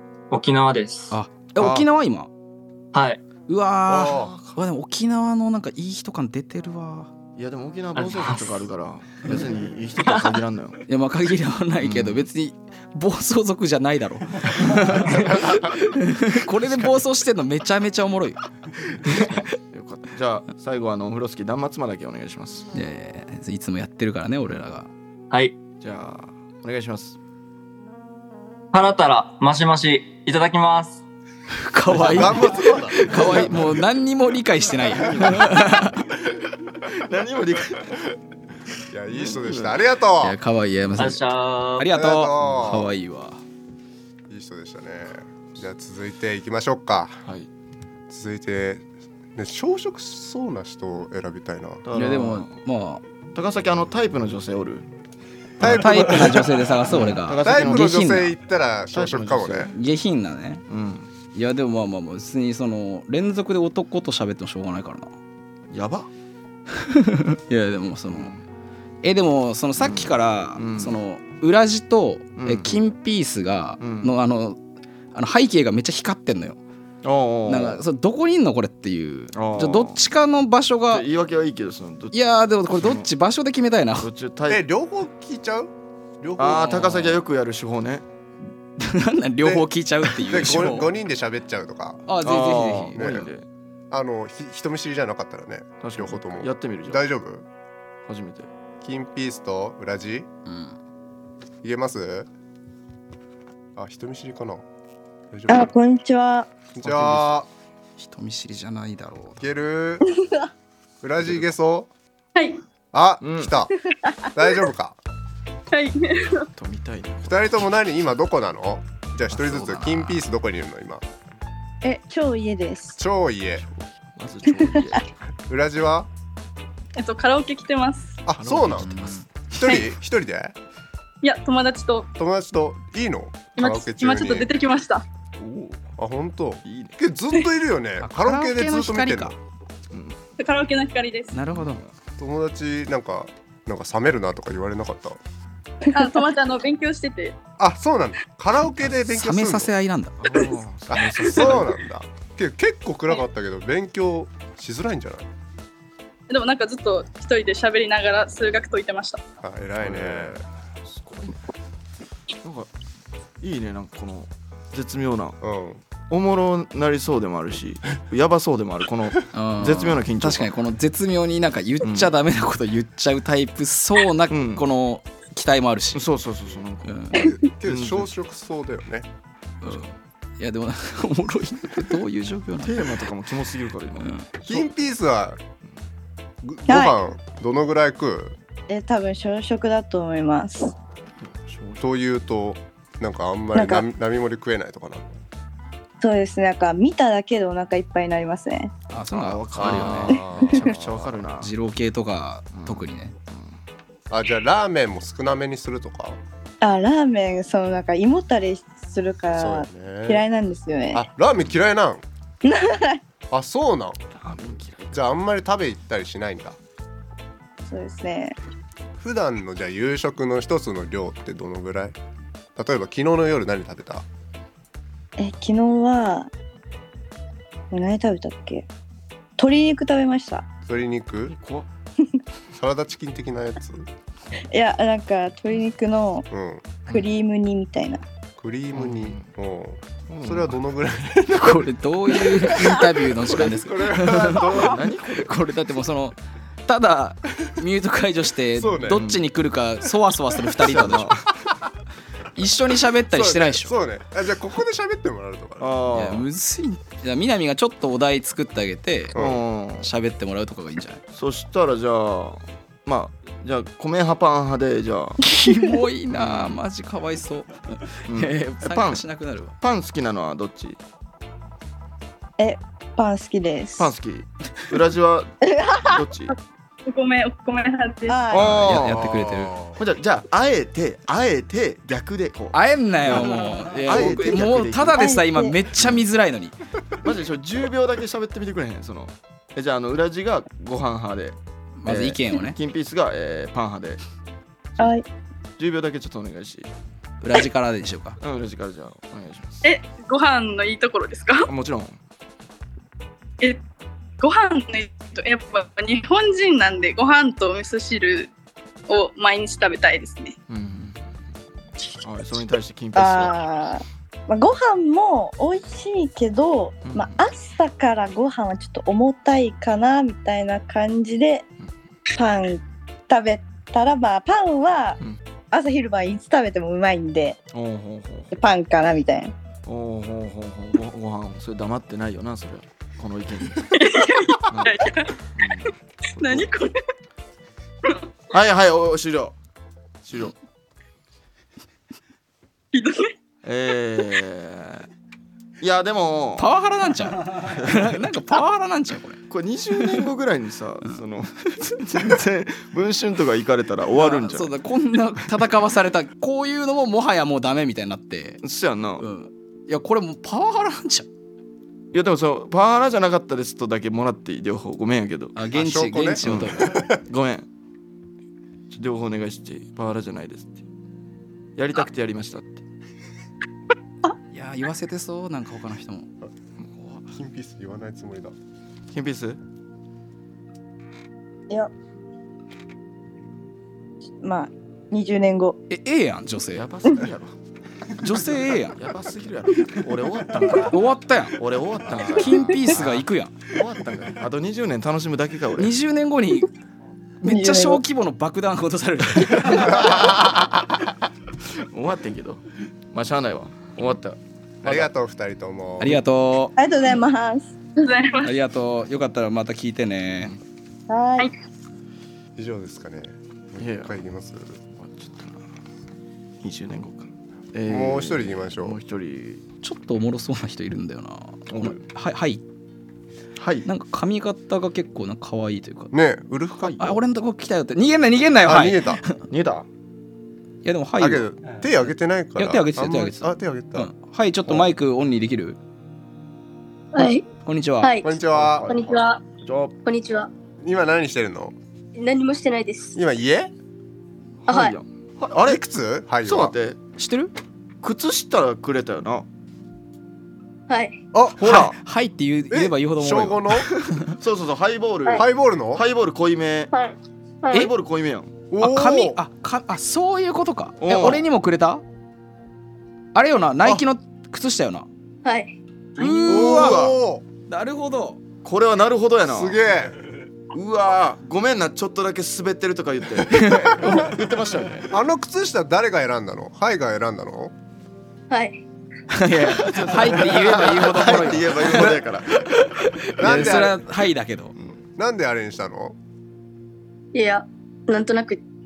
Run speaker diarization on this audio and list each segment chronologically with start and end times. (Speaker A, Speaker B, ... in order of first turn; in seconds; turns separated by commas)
Speaker A: 0.3-1.1, Speaker B: 1.1-2.3, Speaker C: 1.6-1.9, Speaker A: 2.9-3.2, Speaker B: 3.5-7.1, Speaker D: 3.9-4.3, Speaker C: 4.0-4.6, Speaker C: 7.4-10.8, Speaker A: 8.0-8.6, Speaker B: 10.9-18.4, Speaker C: 11.8-12.3, Speaker C: 16.5-17.0, Speaker C: 19.0-22.7, Speaker B: 19.1-19.4, Speaker B: 22.7-24.9, Speaker C: 25.8-27.2, Speaker A: 28.7-31.0, Speaker B: 31.6-36.0, Speaker C: 31.9-33.8, Speaker D: 32.0-33.5, Speaker C: 34.8-38.2, Speaker D: 38.9-40.4, Speaker C: 39.1-39.8, Speaker B: 40.2-43.4, Speaker A: 41.0-41.9, Speaker D: 41.9-42.9, Speaker D: 44.3-47.2, Speaker C: 47.2-47.5, Speaker D: 48.1-48.9, Speaker D: 49.4-51.9, Speaker C: 51.9-52.6, Speaker B: 52.0-53.0, Speaker C: 53.3-54.9, Speaker D: 55.6-56.5, Speaker C: 55.6-58.1, Speaker B: 55.6-58.3, Speaker D: 57.4-59.7, Speaker C: 58.9-59.7, Speaker B: 59.7-60.6, Speaker C: 60.7-61.1, Speaker B: 61.3-65.1, Speaker C: 65.7-66.1, Speaker B: 66.7-68.3, Speaker C: 68.1-68.4, Speaker B: 69.0-74.6, Speaker C: 69.8-71.0, Speaker C: 72.4-72.8, Speaker C: 73.8-74.1, Speaker B: 75.1-76.6, Speaker C: 77.0-77.8, Speaker B: 77.5-81.1, Speaker C: 79.3-80.0, Speaker C: 80.9-83.1, Speaker B: 82.1-84.1, Speaker C: 84.0-84.7, Speaker D: 84.5-87.2, Speaker C: 86.4-88.1, Speaker B: 88.8-90.9, Speaker D: 89.4-92.0, Speaker B: 92.1-93.0, Speaker C: 92.2-93.5, Speaker D: 93.0-93.3, Speaker D: 93.9-97.5, Speaker C: 95.8-97.0, Speaker C: 98.0-98.5, Speaker D: 98.8-100.3, Speaker B: 100.5-100.8, Speaker D: 101.6-102.3, Speaker D: 103.8-104.6, Speaker D: 105.3-105.7, Speaker E: 105.5-106.6, Speaker D: 106.7-107.5, Speaker C: 106.8-107.3, Speaker B: 108.0-109.5, Speaker D: 109.4-110.1, Speaker E: 110.2-110.5, Speaker D: 111.0-111.9, Speaker F: 112.3-112.6, Speaker D: 112.9-113.7, Speaker C: 113.2-113.6, Speaker D: 114.3-115.0, Speaker F: 115.7-116.5, Speaker C: 116.6-117.7, Speaker D: 117.3-121.0, Speaker B: 119.3-120.2, Speaker E: 121.8-123.0, Speaker D: 123.0-123.7, Speaker C: 123.6-125.1, Speaker E: 124.5-125.0, Speaker D: 125.5-126.1, Speaker F: 127.0-128.2, Speaker D: 128.3-130.5, Speaker C: 128.4-129.1, Speaker B: 128.8-129.3, Speaker F: 131.2-132.1, Speaker D: 132.2-134.5, Speaker F: 133.6-135.1, Speaker C: 135.4-135.8, Speaker D: 136.0-139.4, Speaker C: 136.6-137.0, Speaker B: 138.0-139.3, Speaker C: 139.9-140.2, Speaker F: 140.4-141.3, Speaker B: 141.3-141.8, Speaker C: 141.5-141.9, Speaker D: 142.2-145.2, Speaker F: 145.9-147.4, Speaker D: 147.6-149.7, Speaker B: 149.0-150.5, Speaker C: 150.2-151.8, Speaker D: 150.9-155.3, Speaker F: 156.3-159.2, Speaker D: 159.4-160.4, Speaker C: 159.8-161.5, Speaker C: 162.4-162.7, Speaker C: 163.4-165.4, Speaker D: 165.4-165.8, Speaker C: 166.1-170.5, Speaker B: 169.3-176.1, Speaker C: 171.8-172.1, Speaker C: 174.3-174.7, Speaker C: 175.9-178.1, Speaker B: 176.8-177.3, Speaker D: 177.1-179.1, Speaker B: 179.6-183.0, Speaker C: 182.6-184.6, Speaker B: 184.0-184.3, Speaker D: 184.4-185.4, Speaker D: 186.4-188.4, Speaker E: 186.7-186.9, Speaker E: 188.7-190.7, Speaker C: 191.2-191.9, Speaker D: 191.8-195.2, Speaker E: 193.5-193.9, Speaker E: 196.0-198.7, Speaker B: 198.9-200.2, Speaker C: 199.1-201.5, Speaker D: 199.6-201.2, Speaker B: 201.4-203.1, Speaker C: 202.5-203.6, Speaker D: 204.1-206.2, Speaker E: 206.6-211.1, Speaker D: 209.3-210.2, Speaker D: 210.9-212.0, Speaker E: 212.4-213.0, Speaker D: 213.3-214.0, Speaker C: 214.1-215.1, Speaker D: 214.9-216.6, Speaker E: 217.7-218.4, Speaker D: 219.0-222.0, Speaker D: 222.6-224.1, Speaker E: 225.2-226.3, Speaker E: 227.7-228.7, Speaker E: 229.4-230.5, Speaker D: 230.7-231.4, Speaker C: 231.2-231.7, Speaker D: 232.6-233.9, Speaker E: 234.5-236.3, Speaker D: 236.3-236.8, Speaker C: 236.9-237.2, Speaker E: 236.9-238.0, Speaker D: 238.4-241.6, Speaker C: 238.7-239.3, Speaker C: 240.1-240.6, Speaker B: 241.3-251.2, Speaker C: 242.4-245.4, Speaker D: 243.3-244.8, Speaker D: 248.6-249.1, Speaker C: 248.9-249.2, Speaker C: 250.5-251.3, Speaker B: 252.4-253.7, Speaker D: 253.1-255.9, Speaker C: 255.6-256.3, Speaker B: 255.9-259.2, Speaker D: 259.1-259.4, Speaker C: 259.1-259.9, Speaker B: 259.8-261.0, Speaker C: 261.1-265.2, Speaker B: 265.2-269.5, Speaker E: 265.4-265.7, Speaker C: 266.1-266.6, Speaker C: 268.1-269.1, Speaker C: 269.6-270.8, Speaker E: 272.4-273.9, Speaker C: 273.8-276.3, Speaker E: 275.4-276.0, Speaker F: 276.9-278.3, Speaker E: 278.1-278.5, Speaker C: 278.3-279.2, Speaker B: 278.3-279.6, Speaker D: 278.7-279.8, Speaker C: 279.8-285.1, Speaker B: 282.5-286.6, Speaker E: 284.9-285.6, Speaker C: 285.8-286.0, Speaker C: 287.0-294.0, Speaker B: 291.8-292.6, Speaker E: 294.8-295.1, Speaker C: 295.6-296.7, Speaker B: 297.2-298.2, Speaker C: 298.2-299.6, Speaker F: 299.6-301.5, Speaker C: 301.4-302.0, Speaker F: 304.2-308.3, Speaker F: 308.9-310.4, Speaker C: 310.5-311.1, Speaker C: 312.0-313.4, Speaker E: 312.9-321.5, Speaker C: 316.9-317.3, Speaker E: 322.1-325.0, Speaker E: 325.5-327.4, Speaker C: 327.5-328.3, Speaker E: 328.3-329.4, Speaker C: 329.7-333.8, Speaker F: 333.7-335.1, Speaker C: 334.5-334.8, Speaker C: 335.4-336.5, Speaker F: 336.2-336.8, Speaker C: 338.3-339.4, Speaker C: 340.0-340.4, Speaker F: 342.7-343.1, Speaker C: 343.4-344.9, Speaker C: 345.6-346.5, Speaker B: 346.4-349.2, Speaker C: 347.5-347.8, Speaker C: 349.3-354.6, Speaker B: 354.0-358.4, Speaker C: 358.4-359.1, Speaker B: 359.0-361.1, Speaker C: 361.9-365.4, Speaker B: 365.4-366.9, Speaker D: 365.5-367.0, Speaker C: 366.2-367.5, Speaker C: 368.7-370.6, Speaker C: 371.6-372.6, Speaker B: 374.3-376.1, Speaker C: 376.6-377.1, Speaker D: 377.1-378.3, Speaker C: 378.9-379.4, Speaker E: 384.2-385.6, Speaker B: 385.7-386.7, Speaker C: 386.5-387.4, Speaker B: 388.0-388.8, Speaker C: 388.7-390.8, Speaker B: 390.5-391.4, Speaker C: 391.3-395.8, Speaker B: 392.1-393.4, Speaker B: 395.6-396.5, Speaker B: 397.2-399.9, Speaker E: 397.2-397.8, Speaker D: 399.7-400.4, Speaker C: 401.5-404.9, Speaker D: 404.6-406.0, Speaker B: 405.8-406.6, Speaker E: 406.6-407.6, Speaker F: 407.8-408.3, Speaker B: 408.2-410.4, Speaker E: 410.9-411.3, Speaker D: 412.4-414.6, Speaker C: 413.6-414.0, Speaker C: 414.8-415.4, Speaker C: 416.4-419.4, Speaker D: 417.7-418.8, Speaker B: 419.6-422.4, Speaker C: 421.5-421.8, Speaker C: 423.4-423.7, Speaker B: 423.7-425.9, Speaker D: 425.9-427.0, Speaker C: 426.6-427.0, Speaker B: 426.8-429.2, Speaker D: 428.4-429.0, Speaker C: 429.3-429.7, Speaker B: 430.6-431.3, Speaker D: 431.0-433.9, Speaker B: 432.4-435.6, Speaker C: 434.5-434.7, Speaker G: 436.9-437.3, Speaker B: 437.4-437.9, Speaker G: 437.8-438.1, Speaker D: 438.0-438.7, Speaker C: 438.3-439.8, Speaker G: 438.7-439.2, Speaker G: 439.9-440.3, Speaker D: 440.6-441.6, Speaker G: 442.0-443.0, Speaker D: 443.0-443.5, Speaker C: 444.4-445.7, Speaker G: 444.5-444.8, Speaker D: 445.4-446.6, Speaker C: 446.2-446.8, Speaker B: 447.0-447.3, Speaker C: 447.8-449.3, Speaker G: 450.7-451.0, Speaker D: 451.1-451.7, Speaker C: 451.4-451.8, Speaker B: 451.4-454.1, Speaker D: 452.5-453.7, Speaker C: 454.1-456.7, Speaker D: 455.1-455.8, Speaker G: 456.7-457.7, Speaker C: 457.5-458.3, Speaker D: 458.5-459.2, Speaker B: 458.6-461.8, Speaker C: 460.8-461.2, Speaker B: 463.1-464.9, Speaker G: 465.2-466.4, Speaker B: 466.0-466.9, Speaker D: 466.3-467.2, Speaker C: 466.3-466.9, Speaker B: 467.5-468.2, Speaker C: 468.4-469.6, Speaker D: 469.3-470.0, Speaker C: 470.5-474.9, Speaker B: 473.3-473.6, Speaker D: 473.4-474.1, Speaker D: 474.9-477.5, Speaker G: 478.3-478.6, Speaker B: 479.1-484.5, Speaker C: 479.4-482.5, Speaker D: 481.6-482.0, Speaker D: 483.2-483.8, Speaker C: 483.2-483.7, Speaker D: 485.0-486.0, Speaker G: 487.1-488.4